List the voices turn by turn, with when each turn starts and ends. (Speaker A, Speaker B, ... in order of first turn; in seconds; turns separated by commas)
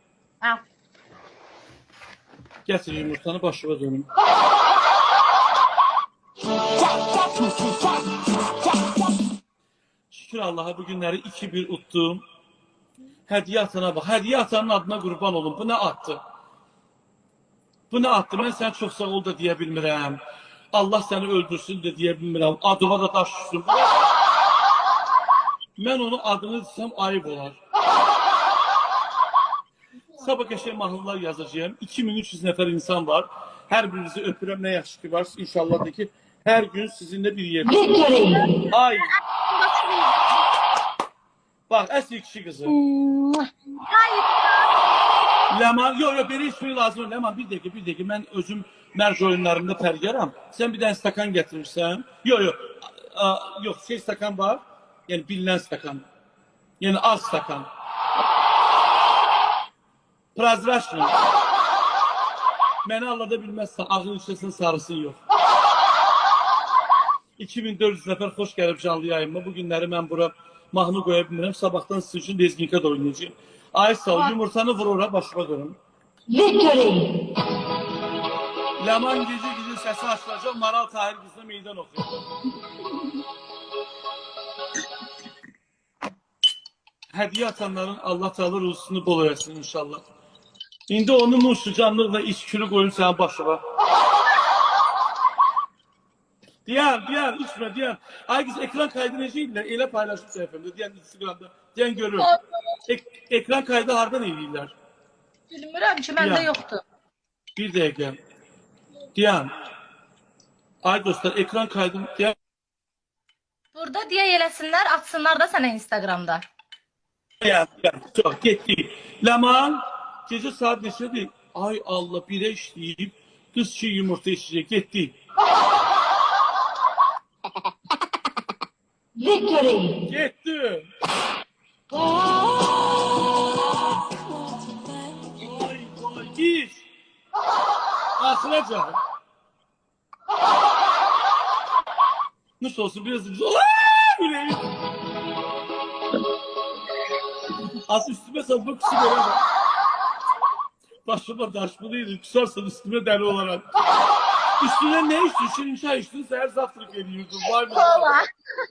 Speaker A: 2.6-4.1, Speaker A: 10.1-12.2, Speaker A: 13.3-16.2, Speaker A: 17.9-20.2, Speaker A: 20.7-24.1, Speaker A: 25.8-27.6, Speaker A: 30.2-37.8, Speaker B: 37.6-38.5, Speaker C: 38.1-38.6, Speaker A: 38.7-39.1, Speaker C: 39.3-40.4, Speaker A: 41.7-42.8, Speaker C: 42.8-44.7, Speaker A: 45.5-56.0, Speaker A: 56.8-57.7, Speaker A: 60.3-61.1, Speaker A: 62.8-65.2, Speaker A: 67.4-75.8, Speaker B: 76.3-77.2, Speaker A: 78.8-82.1, Speaker A: 87.1-90.0, Speaker A: 90.9-93.6, Speaker A: 96.7-102.3, Speaker C: 102.2-102.4, Speaker A: 102.9-104.7, Speaker C: 105.5-106.8, Speaker A: 106.2-106.5, Speaker A: 107.5-108.2, Speaker A: 109.1-109.5, Speaker A: 110.8-112.3, Speaker C: 113.7-116.4, Speaker A: 117.4-125.1, Speaker B: 129.2-130.0, Speaker A: 130.0-130.9, Speaker A: 135.3-136.8, Speaker A: 138.2-139.0, Speaker A: 142.6-144.7, Speaker A: 147.8-149.4, Speaker A: 151.1-153.6, Speaker A: 154.6-158.1, Speaker C: 157.7-158.3